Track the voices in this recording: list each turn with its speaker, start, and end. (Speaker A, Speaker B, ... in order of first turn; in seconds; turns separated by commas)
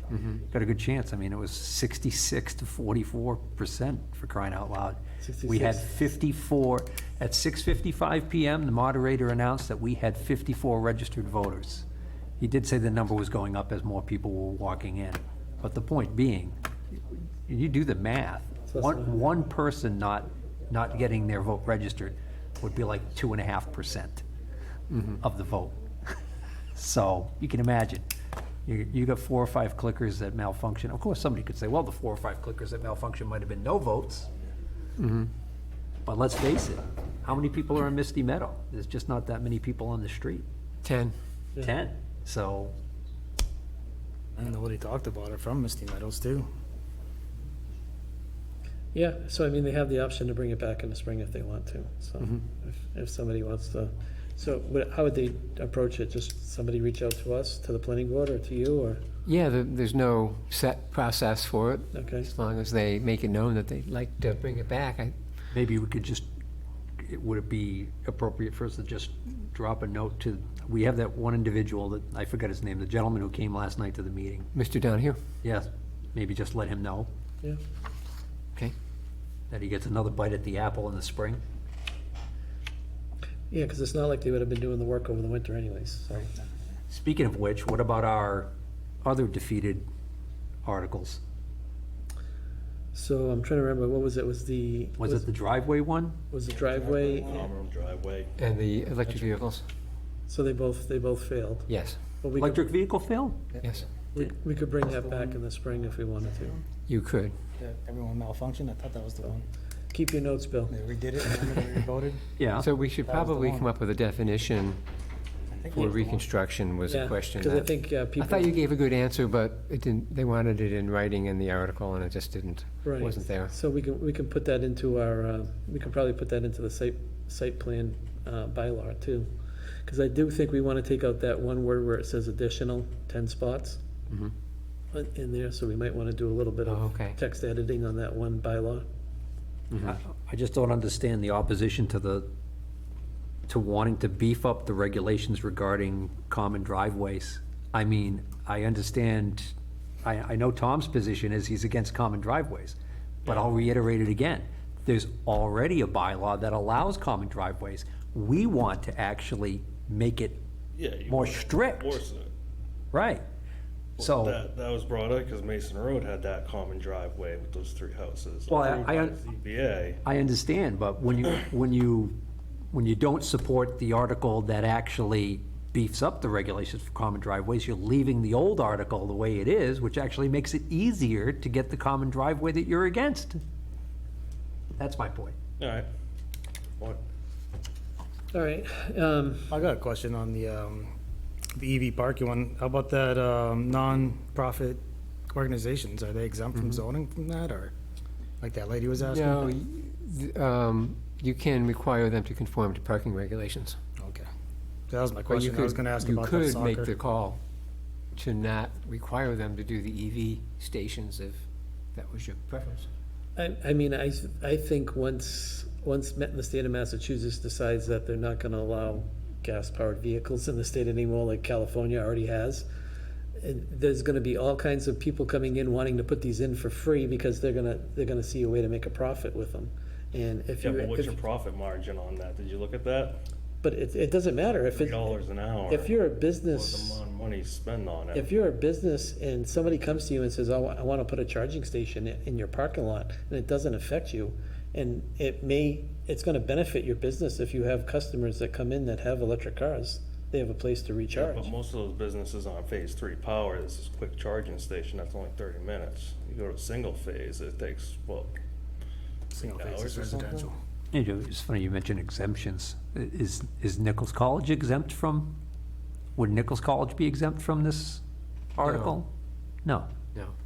Speaker A: 0.4-11.8, Speaker B: 5.2-5.8, Speaker A: 12.4-16.5, Speaker A: 17.4-24.2, Speaker B: 18.7-19.1, Speaker C: 24.9-25.2, Speaker A: 25.2-25.8, Speaker A: 26.7-28.1, Speaker A: 28.6-34.3, Speaker C: 35.0-35.3, Speaker A: 36.0-40.5, Speaker C: 40.8-41.1, Speaker A: 41.6-42.8, Speaker D: 44.4-46.5, Speaker B: 48.9-59.0, Speaker C: 59.2-65.1, Speaker B: 61.9-62.3, Speaker A: 65.5-66.2, Speaker A: 67.0-74.5, Speaker C: 74.5-75.2, Speaker A: 75.4-77.1, Speaker A: 79.5-81.4, Speaker B: 83.5-86.3, Speaker A: 86.9-88.5, Speaker A: 89.0-89.8, Speaker A: 90.6-91.2, Speaker B: 92.9-95.3, Speaker A: 95.0-96.2, Speaker B: 96.3-97.5, Speaker D: 96.5-97.5, Speaker E: 97.3-98.3, Speaker C: 98.4-99.6, Speaker B: 100.3-101.7, Speaker C: 101.7-102.0, Speaker B: 102.2-102.7, Speaker A: 102.3-103.4, Speaker B: 104.1-106.6, Speaker D: 105.1-105.4, Speaker C: 106.9-107.3, Speaker D: 107.6-109.5, Speaker B: 109.9-110.7, Speaker D: 110.7-112.2, Speaker A: 112.4-112.7, Speaker C: 112.6-114.8, Speaker D: 113.0-113.7, Speaker D: 115.5-116.2, Speaker C: 115.7-123.5, Speaker B: 116.9-118.6, Speaker B: 122.8-129.3, Speaker B: 129.8-133.8, Speaker B: 134.9-138.8, Speaker C: 136.7-137.2, Speaker A: 139.8-142.3, Speaker A: 143.5-160.4, Speaker E: 160.8-162.3, Speaker A: 161.1-162.0, Speaker A: 162.9-163.2, Speaker E: 164.0-170.0, Speaker A: 164.0-164.4, Speaker A: 168.5-169.2, Speaker A: 170.0-172.2, Speaker A: 172.7-183.4, Speaker A: 184.7-185.3, Speaker E: 185.6-185.9, Speaker B: 188.3-189.5, Speaker D: 189.5-190.9, Speaker D: 191.5-197.7, Speaker D: 198.4-199.5, Speaker C: 199.0-203.8, Speaker D: 204.0-204.3, Speaker D: 204.9-206.9, Speaker C: 205.3-207.4, Speaker C: 208.1-212.9, Speaker B: 213.3-222.7, Speaker B: 223.4-231.2, Speaker E: 230.6-233.2, Speaker B: 233.6-235.0, Speaker E: 234.7-235.9, Speaker B: 235.7-237.0, Speaker E: 236.5-238.3, Speaker B: 238.1-251.5, Speaker E: 251.1-258.3, Speaker D: 259.3-260.6, Speaker E: 259.3-260.5, Speaker A: 260.9-265.4, Speaker A: 266.1-268.0, Speaker A: 268.6-269.1, Speaker C: 268.6-268.9